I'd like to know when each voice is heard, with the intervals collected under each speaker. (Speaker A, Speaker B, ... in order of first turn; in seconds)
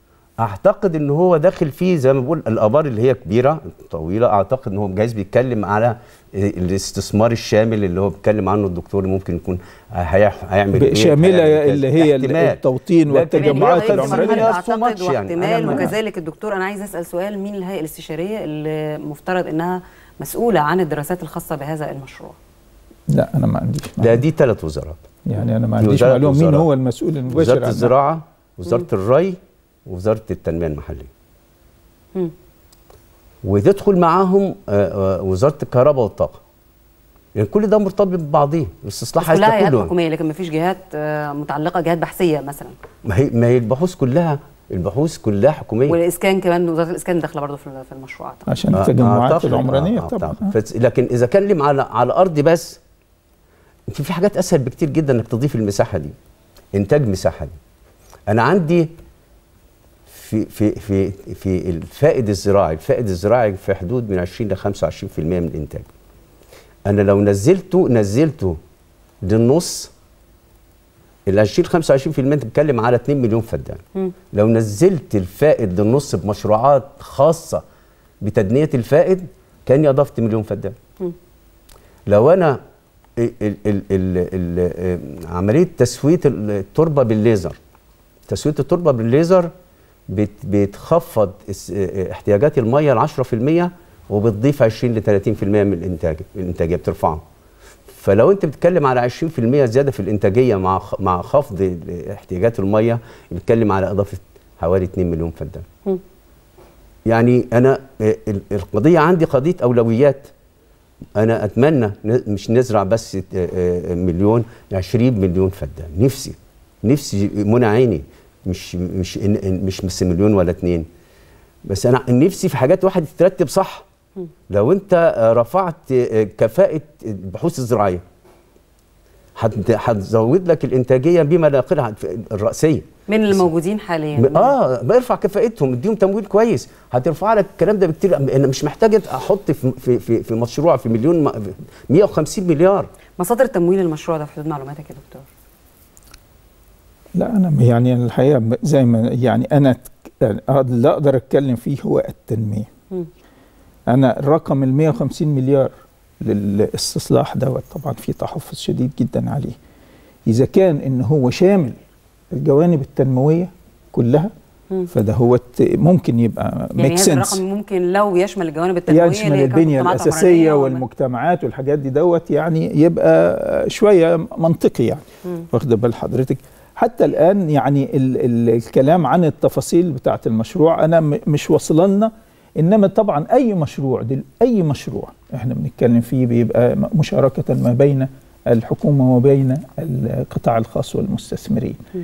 Speaker A: 0.4-15.9, 24.0-25.0, 25.8-26.7, 27.3-31.1, 33.4-36.4, 37.4-39.9, 43.0-46.0, 48.7-52.8, 53.9-56.1, 56.7-57.6, 58.3-58.9, 60.1-65.9, 66.9-68.6, 69.2-69.9, 71.3-77.6, 78.2-80.8, 82.1-82.6, 83.2-87.6, 88.3-89.5, 90.1-97.2, 97.9-105.7, 107.1-110.3, 111.2-120.9, 121.7-123.8, 124.5-128.0, 129.4-133.5, 134.2-142.9
Speaker B: 10.7-14.6, 23.1-24.2, 25.3-27.9, 48.5-50.5, 147.2-152.7, 153.9-159.6, 160.3-161.8, 162.3-164.3, 164.9-167.4, 168.9-191.9
Speaker C: 13.4-22.4, 39.2-42.8, 45.9-48.5, 133.1-134.6, 143.2-145.3, 166.8-170.8